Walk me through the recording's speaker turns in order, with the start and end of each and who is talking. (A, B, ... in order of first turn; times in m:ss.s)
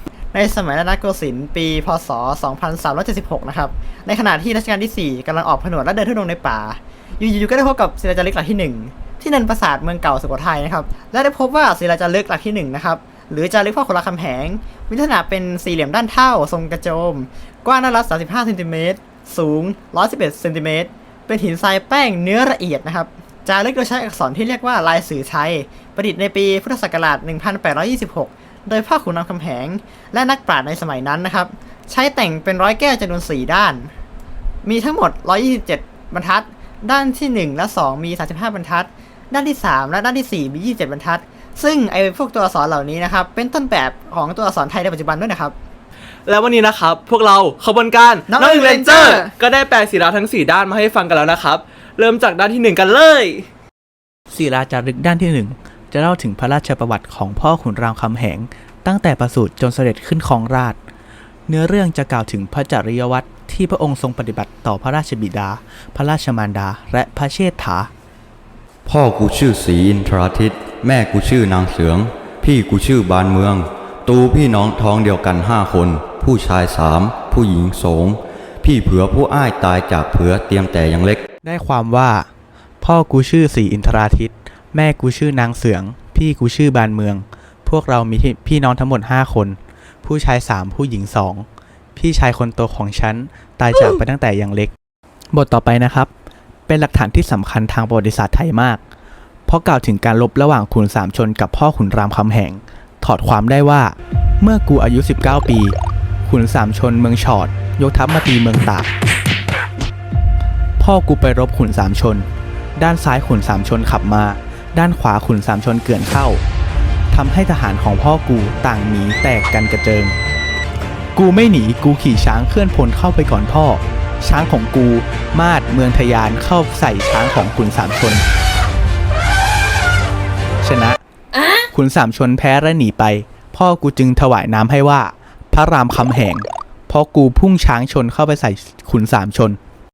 0:00.3-0:33.9 A
0:34.6-0:45.5 A
0:46.2-0:53.5 B
0:48.3-0:49.3 A
0:54.3-1:00.8 C
1:01.5-1:07.9 C
1:08.8-1:21.2 D
1:21.4-1:22.3 C
1:22.8-1:34.7 C
1:35.3-1:36.1 C
1:36.7-1:38.8 C
1:39.5-1:48.9 C
1:50.8-1:56.4 C
1:57.1-2:00.2 C
2:01.1-2:08.2 C
2:10.6-2:11.0 C
2:11.7-2:19.6 C